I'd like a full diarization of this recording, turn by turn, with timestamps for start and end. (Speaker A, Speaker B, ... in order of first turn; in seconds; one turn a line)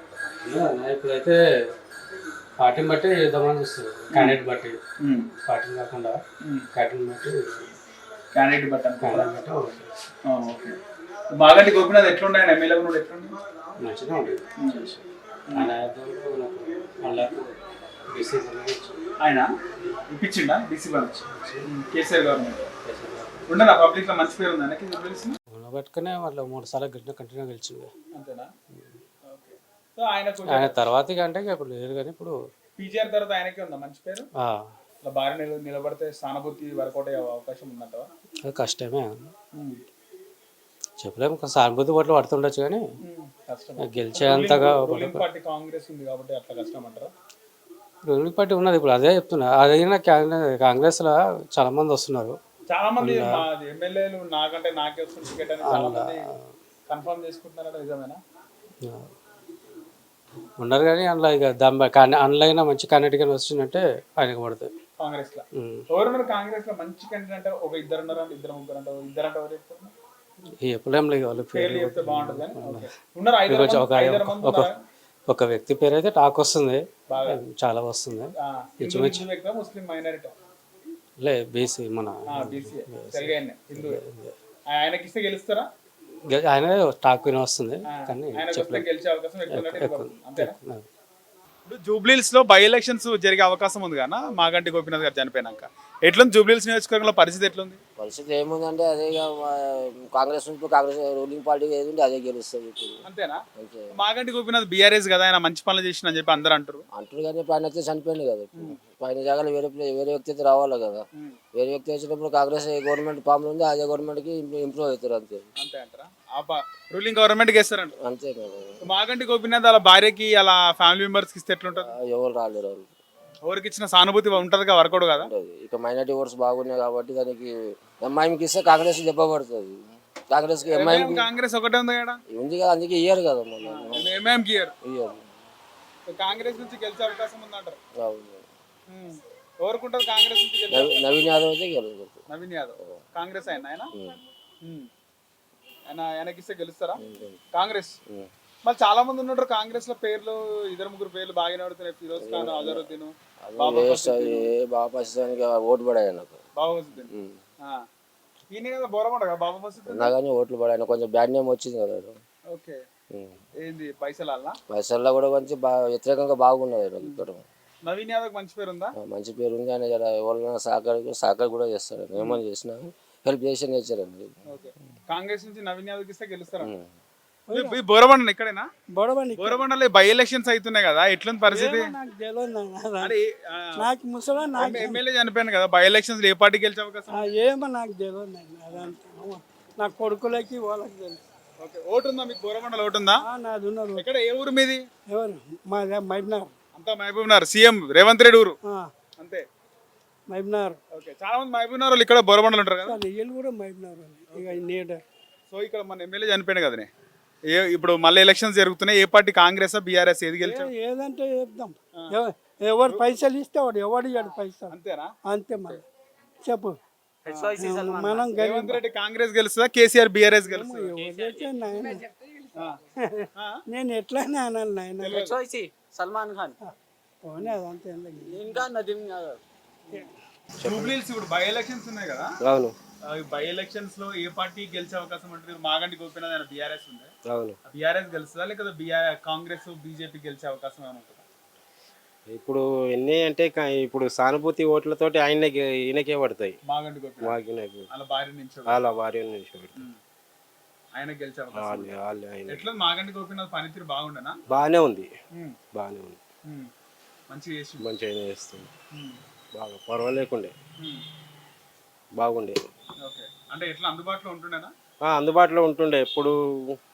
Speaker A: 0.4-1.3
Speaker A: 2.6-4.8
Speaker B: 5.0-5.3
Speaker A: 5.5-6.2
Speaker A: 6.7-7.7
Speaker B: 8.3-9.3
Speaker A: 9.0-9.8
Speaker B: 10.3-10.8
Speaker B: 11.3-13.4
Speaker A: 13.8-15.0
Speaker B: 14.6-14.8
Speaker A: 15.6-17.6
Speaker A: 18.1-18.9
Speaker B: 19.2-19.5
Speaker B: 20.1-21.2
Speaker A: 21.3-21.5
Speaker B: 21.7-22.6
Speaker A: 22.9-23.3
Speaker B: 23.5-25.3
Speaker A: 25.6-27.9
Speaker B: 28.1-28.5
Speaker B: 29.3-30.8
Speaker A: 30.5-32.3
Speaker B: 32.8-34.3
Speaker B: 35.0-38.1
Speaker A: 38.5-39.1
Speaker B: 39.5-39.8
Speaker A: 41.0-42.8
Speaker B: 43.0-47.1
Speaker A: 43.8-45.2
Speaker A: 48.1-52.4
Speaker B: 52.7-56.2
Speaker A: 53.0-53.4
Speaker A: 55.6-56.0
Speaker B: 56.9-58.2
Speaker A: 60.6-64.7
Speaker B: 65.0-69.9
Speaker A: 70.6-72.9
Speaker B: 71.5-74.7
Speaker A: 73.5-74.6
Speaker A: 75.3-78.3
Speaker B: 77.1-77.4
Speaker B: 78.4-80.3
Speaker A: 78.9-79.2
Speaker A: 81.2-84.3
Speaker B: 82.3-84.0
Speaker B: 84.7-85.7
Speaker A: 86.4-88.8
Speaker B: 87.9-90.5
Speaker A: 89.5-90.8
Speaker B: 91.7-97.8
Speaker C: 98.0-103.0
Speaker B: 103.0-103.4
Speaker C: 103.6-103.9
Speaker B: 104.0-106.9
Speaker C: 106.9-115.5
Speaker B: 115.6-117.9
Speaker C: 118.0-118.8
Speaker B: 118.8-121.9
Speaker C: 121.7-122.9
Speaker B: 123.4-125.3
Speaker C: 125.2-131.3
Speaker B: 130.7-132.2
Speaker C: 132.3-134.1
Speaker B: 133.7-134.7
Speaker C: 134.8-135.2
Speaker B: 136.1-137.8
Speaker C: 137.9-138.5
Speaker B: 138.9-141.1
Speaker C: 140.7-142.2
Speaker B: 142.3-143.9
Speaker B: 144.6-144.9
Speaker B: 145.9-147.0
Speaker C: 147.0-147.4
Speaker B: 147.5-148.0
Speaker B: 148.6-154.5
Speaker C: 152.2-156.4
Speaker B: 156.6-157.1
Speaker C: 157.1-157.4
Speaker B: 158.5-160.2
Speaker C: 159.8-162.2
Speaker B: 162.5-162.8
Speaker C: 163.1-163.4
Speaker B: 163.6-164.6
Speaker C: 164.7-167.4
Speaker B: 167.8-168.9
Speaker C: 169.0-174.3
Speaker B: 174.5-176.7
Speaker C: 176.6-176.9
Speaker D: 177.5-177.8
Speaker B: 177.5-178.7
Speaker D: 178.9-179.6
Speaker B: 179.4-181.9
Speaker D: 181.5-183.1
Speaker B: 183.0-183.9
Speaker D: 183.8-185.0
Speaker B: 184.5-187.4
Speaker D: 187.1-191.2
Speaker B: 188.7-189.0
Speaker B: 191.6-193.2
Speaker D: 193.3-194.0
Speaker B: 194.0-194.8
Speaker D: 195.1-196.5
Speaker B: 196.7-198.6
Speaker B: 199.2-199.4
Speaker D: 200.3-200.8
Speaker B: 200.9-203.0
Speaker D: 202.8-205.0
Speaker B: 204.3-204.6
Speaker B: 205.5-206.9
Speaker B: 207.5-210.7
Speaker D: 210.4-214.7
Speaker B: 212.8-213.2
Speaker B: 214.7-215.1
Speaker D: 215.2-215.8
Speaker D: 216.4-216.8
Speaker E: 217.2-218.3
Speaker B: 217.3-217.7
Speaker D: 217.6-218.8
Speaker B: 218.3-221.0
Speaker D: 220.4-222.0
Speaker E: 220.9-222.7
Speaker D: 223.1-225.3
Speaker B: 225.0-225.3
Speaker E: 225.2-226.6
Speaker D: 227.2-228.6
Speaker E: 228.2-229.4
Speaker F: 230.6-231.0
Speaker B: 230.6-232.3
Speaker F: 232.4-232.7
Speaker B: 233.1-237.1
Speaker F: 237.3-237.6
Speaker B: 237.7-241.2
Speaker F: 242.3-246.5
Speaker B: 246.7-247.4
Speaker F: 247.2-247.9
Speaker B: 247.9-248.8
Speaker F: 248.7-249.8
Speaker B: 250.9-254.4
Speaker F: 251.5-252.6
Speaker F: 254.5-255.1
Speaker F: 255.7-256.2
Speaker B: 257.3-257.9
Speaker F: 257.8-258.7
Speaker B: 258.9-259.2
Speaker F: 259.6-260.5
Speaker F: 262.1-262.6
Speaker B: 263.0-264.7
Speaker F: 265.1-266.8